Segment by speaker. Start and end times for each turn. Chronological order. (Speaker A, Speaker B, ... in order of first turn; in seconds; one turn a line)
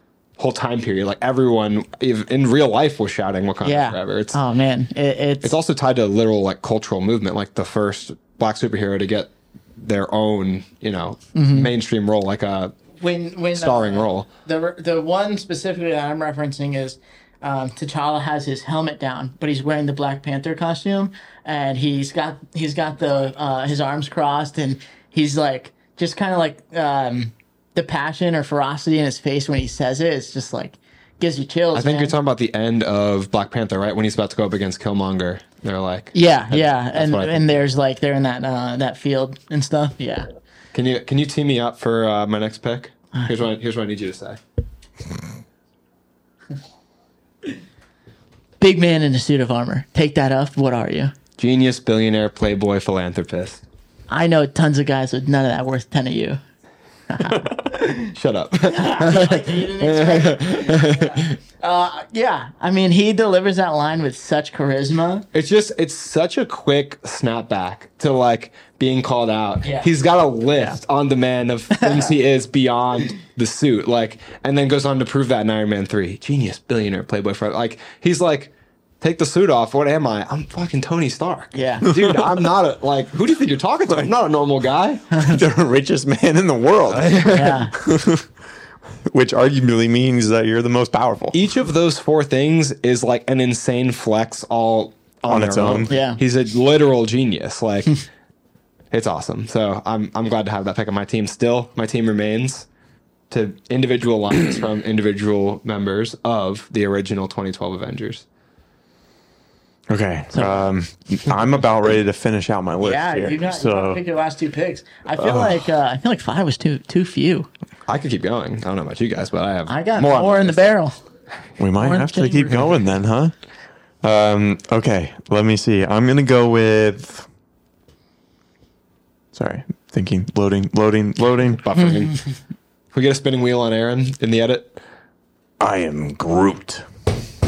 Speaker A: 0.4-4.4
Speaker B: 3.6-5.5
Speaker A: 5.4-12.7
Speaker B: 11.3-11.7
Speaker B: 13.0-32.1
Speaker A: 13.5-14.3
Speaker A: 31.7-37.4
Speaker B: 36.1-40.3
Speaker A: 40.7-44.4
Speaker B: 48.6-51.1
Speaker A: 51.4-53.6
Speaker B: 54.1-56.4
Speaker B: 57.1-58.1
Speaker C: 57.2-57.5
Speaker A: 58.1-61.4
Speaker B: 58.7-65.2
Speaker A: 65.3-85.1
Speaker B: 69.6-69.9
Speaker B: 71.8-72.1
Speaker B: 81.5-81.9
Speaker C: 82.0-82.3
Speaker B: 85.1-85.4
Speaker C: 85.2-88.3
Speaker A: 86.9-87.6
Speaker B: 87.3-87.8
Speaker C: 89.1-91.4
Speaker A: 91.3-98.0
Speaker C: 95.3-95.9
Speaker B: 95.9-96.2
Speaker A: 98.9-102.7
Speaker A: 103.3-108.2
Speaker C: 109.9-114.0
Speaker B: 110.3-110.7
Speaker B: 112.8-117.5
Speaker A: 117.9-120.7
Speaker B: 119.7-120.9
Speaker C: 121.6-123.3
Speaker B: 121.8-122.8
Speaker C: 124.0-127.3
Speaker C: 129.3-131.6
Speaker A: 131.6-132.2
Speaker A: 132.9-134.8
Speaker C: 135.6-136.8